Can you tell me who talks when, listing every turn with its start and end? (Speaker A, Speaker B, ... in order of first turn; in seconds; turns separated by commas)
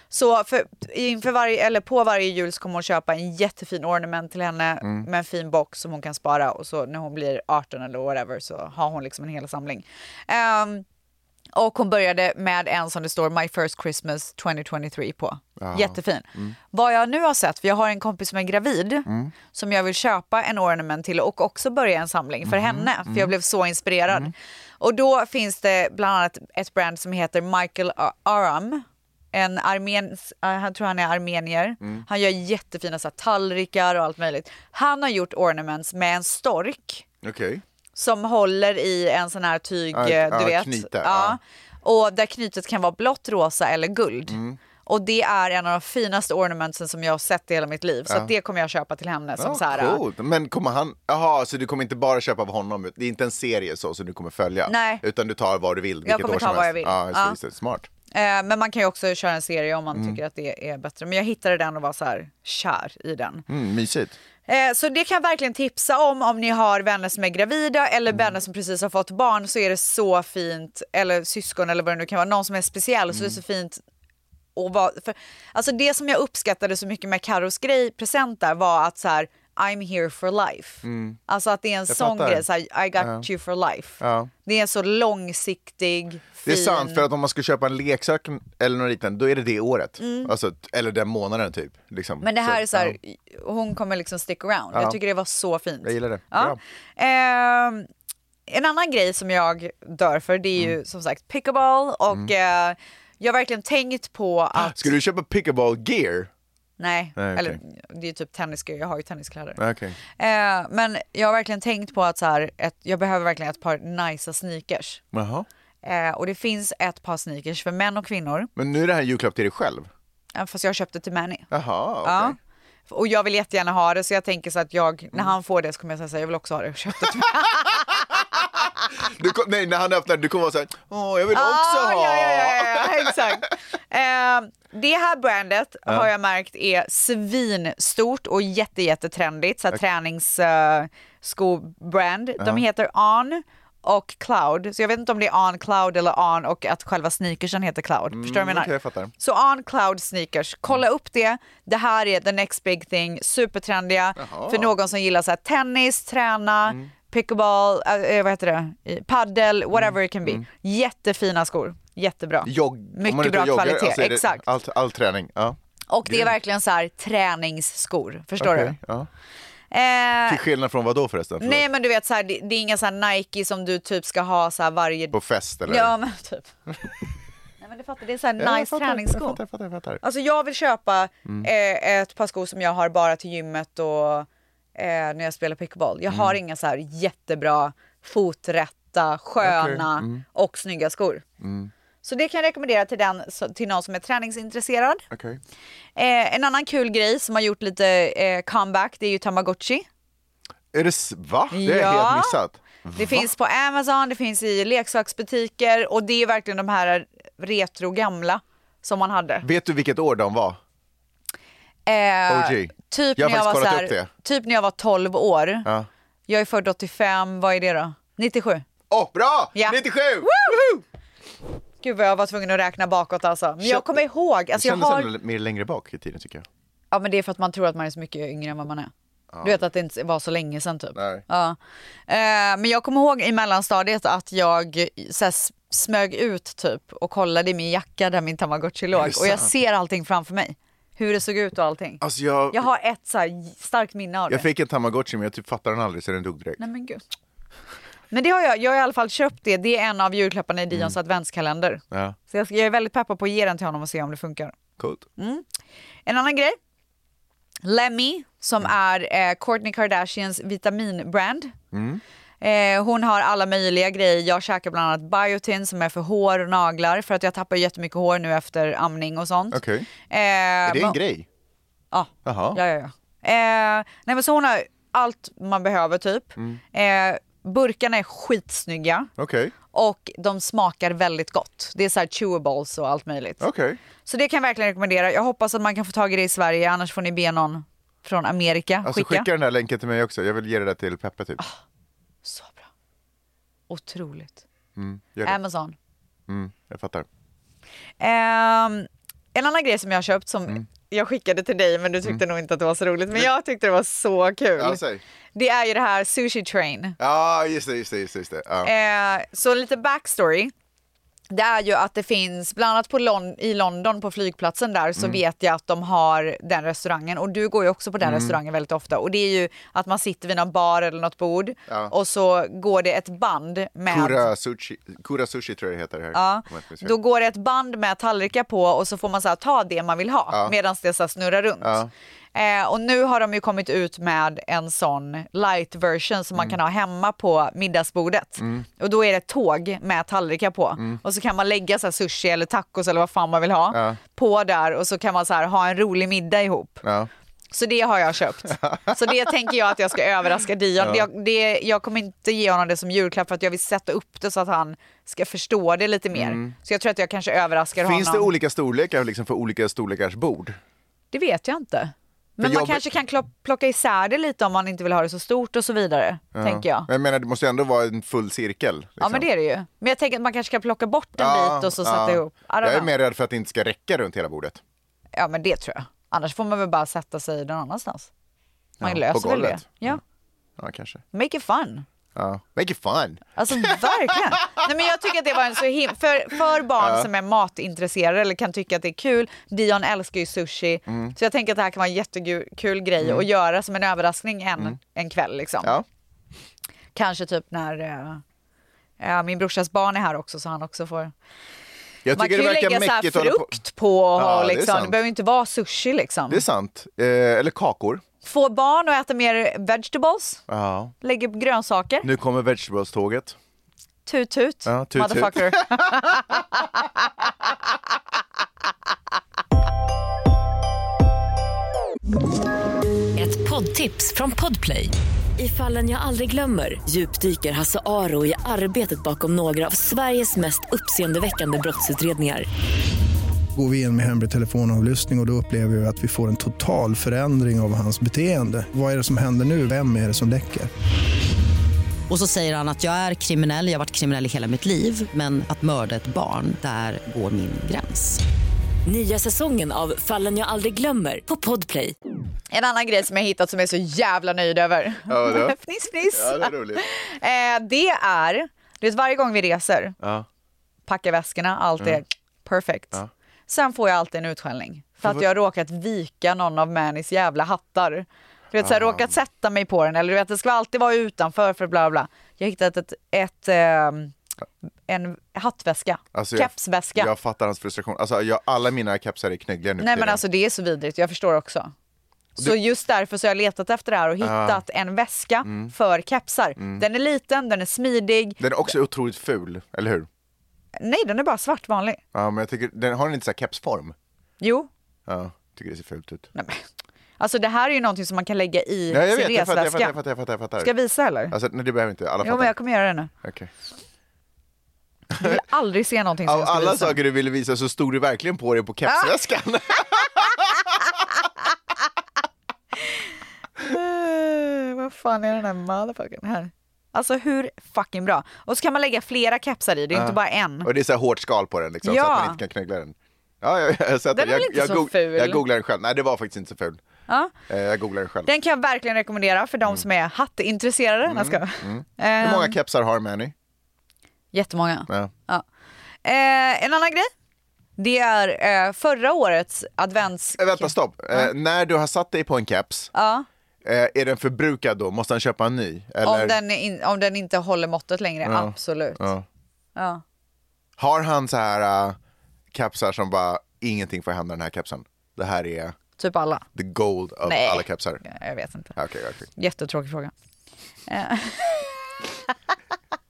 Speaker A: 0.1-10.8, Speaker B: 4.8-5.1, Speaker A: 11.6-37.0, Speaker B: 15.6-16.6, Speaker B: 19.1-19.3, Speaker B: 22.4-23.3, Speaker B: 37.2-37.6, Speaker A: 38.0-50.0, Speaker B: 39.9-41.4, Speaker B: 44.3-44.6, Speaker B: 49.4-57.9, Speaker A: 54.7-55.0, Speaker A: 56.0-57.4, Speaker A: 58.1-63.5, Speaker B: 59.9-60.2, Speaker B: 63.5-64.2, Speaker A: 64.5-73.8, Speaker B: 73.1-73.4, Speaker A: 74.6-87.0, Speaker B: 80.8-81.2, Speaker B: 81.9-82.5, Speaker B: 83.0-83.3, Speaker B: 84.0-84.3, Speaker B: 86.5-93.0, Speaker A: 90.0-90.3, Speaker A: 92.2-97.9, Speaker B: 94.7-95.0, Speaker B: 95.8-96.6, Speaker A: 98.5-104.9, Speaker B: 104.5-106.3, Speaker A: 106.8-109.6, Speaker B: 107.2-107.6, Speaker B: 109.6-110.0, Speaker A: 110.2-115.0, Speaker B: 115.1-115.5, Speaker A: 115.8-118.5, Speaker B: 118.6-119.9, Speaker A: 120.3-121.5, Speaker B: 121.5-122.4, Speaker A: 122.0-122.4, Speaker A: 122.9-128.2, Speaker B: 128.6-133.4, Speaker A: 131.3-164.4, Speaker B: 142.4-142.6, Speaker B: 148.1-149.1, Speaker B: 154.2-154.7, Speaker B: 159.7-160.4, Speaker B: 162.4-166.3, Speaker A: 165.9-168.8, Speaker B: 168.4-169.1, Speaker A: 169.7-170.4, Speaker B: 170.3-171.7, Speaker A: 171.4-176.5, Speaker B: 175.1-175.9, Speaker A: 177.6-179.4, Speaker B: 178.4-180.0, Speaker A: 180.0-191.2, Speaker B: 186.1-186.4, Speaker B: 189.4-190.2, Speaker B: 191.4-191.7, Speaker A: 192.0-195.0, Speaker B: 195.1-195.4, Speaker A: 196.0-199.9, Speaker B: 200.7-203.3, Speaker A: 201.5-202.4, Speaker A: 202.9-209.5, Speaker B: 209.4-210.6, Speaker A: 211.9-215.7, Speaker B: 212.3-214.1, Speaker A: 216.3-218.7, Speaker B: 218.9-220.8, Speaker A: 219.6-220.8, Speaker A: 221.8-225.1, Speaker B: 223.6-224.0, Speaker B: 224.5-226.5, Speaker A: 226.9-228.9, Speaker B: 229.3-229.7, Speaker A: 229.4-231.6, Speaker B: 230.9-231.2, Speaker A: 232.1-244.5, Speaker B: 238.9-239.5, Speaker B: 242.0-242.7, Speaker B: 244.3-246.6, Speaker A: 246.6-247.0, Speaker A: 248.1-254.6, Speaker B: 254.8-255.1, Speaker A: 255.2-255.4, Speaker A: 256.1-256.6, Speaker A: 257.6-261.5, Speaker B: 261.7-262.0, Speaker A: 262.4-271.0, Speaker B: 269.5-269.9, Speaker B: 270.6-271.3, Speaker A: 271.9-279.1, Speaker B: 272.2-272.6, Speaker B: 279.2-279.5, Speaker A: 279.7-283.4, Speaker B: 283.4-283.8, Speaker A: 284.1-289.3, Speaker B: 288.8-291.4, Speaker A: 292.2-292.7, Speaker A: 293.7-294.4, Speaker B: 294.8-295.4, Speaker A: 295.2-295.8, Speaker B: 296.3-297.1, Speaker A: 298.0-304.8, Speaker B: 304.6-305.0, Speaker A: 305.4-307.0, Speaker B: 307.0-308.7, Speaker A: 308.6-310.5, Speaker A: 311.3-324.3, Speaker B: 318.0-318.4, Speaker B: 321.7-321.9, Speaker B: 323.9-326.9, Speaker A: 326.1-331.8, Speaker B: 331.6-331.9, Speaker A: 332.4-346.8, Speaker B: 338.4-338.7, Speaker B: 343.7-344.0, Speaker B: 346.8-347.1, Speaker A: 347.5-358.3, Speaker B: 348.6-349.0, Speaker B: 350.8-351.1, Speaker B: 356.1-356.5, Speaker B: 357.8-360.6, Speaker A: 361.1-366.9, Speaker B: 362.4-362.9, Speaker B: 366.3-369.3, Speaker A: 369.0-372.9, Speaker B: 371.2-374.6, Speaker A: 375.2-378.1, Speaker B: 378.8-380.0, Speaker A: 378.8-380.0, Speaker B: 380.6-381.0, Speaker A: 381.1-381.9, Speaker B: 382.1-384.4, Speaker A: 383.4-395.8, Speaker B: 386.8-387.1, Speaker B: 390.9-391.2, Speaker B: 393.0-393.3, Speaker A: 396.9-398.2, Speaker A: 399.0-401.1, Speaker B: 402.1-403.6, Speaker A: 402.1-406.4, Speaker B: 404.1-405.0, Speaker B: 406.3-408.0, Speaker A: 408.2-410.4, Speaker B: 410.5-410.9, Speaker A: 411.0-412.1, Speaker B: 412.0-413.4, Speaker A: 414.1-416.6, Speaker B: 414.7-416.2, Speaker C: 423.1-432.5, Speaker D: 433.6-440.7, Speaker E: 442.1-448.2, Speaker C: 448.9-451.9, Speaker A: 452.5-460.0, Speaker B: 455.1-456.8, Speaker B: 460.0-460.3, Speaker A: 460.9-474.1, Speaker B: 468.6-469.1, Speaker A: 474.9-477.1, Speaker B: 476.1-480.2, Speaker A: 479.8-481.7, Speaker A: 482.4-488.4, Speaker B: 484.2-484.6, Speaker B: 485.4-485.7, Speaker B: 486.6-486.9, Speaker B: 488.4-490.1, Speaker A: 490.8-492.0, Speaker B: 492.1-493.9, Speaker A: 494.4-494.7, Speaker B: 495.1-496.3, Speaker A: 496.4-496.6, Speaker A: 497.2-500.0, Speaker B: 498.9-500.7, Speaker A: 500.6-501.4, Speaker B: 501.3-502.5, Speaker A: 502.2-503.1, Speaker B: 503.2-503.5, Speaker B: 505.1-505.4, Speaker A: 505.2-507.0, Speaker B: 506.2-510.7, Speaker A: 513.6-520.7, Speaker B: 519.9-526.8, Speaker A: 521.8-522.4, Speaker A: 524.1-525.4, Speaker A: 527.1-527.3, Speaker B: 527.5-528.3, Speaker A: 528.3-532.6, Speaker B: 531.1-533.3, Speaker A: 534.3-535.4, Speaker A: 536.0-537.1, Speaker A: 537.8-541.3, Speaker B: 540.4-542.9, Speaker A: 542.9-543.3, Speaker B: 543.6-546.4, Speaker A: 546.0-549.1, Speaker B: 548.2-549.3, Speaker A: 549.8-550.0, Speaker B: 550.8-552.0, Speaker B: 552.5-555.8, Speaker A: 556.0-556.5, Speaker B: 556.6-558.0, Speaker A: 557.2-558.8, Speaker B: 558.8-559.3, Speaker A: 559.4-560.1, Speaker A: 560.9-561.8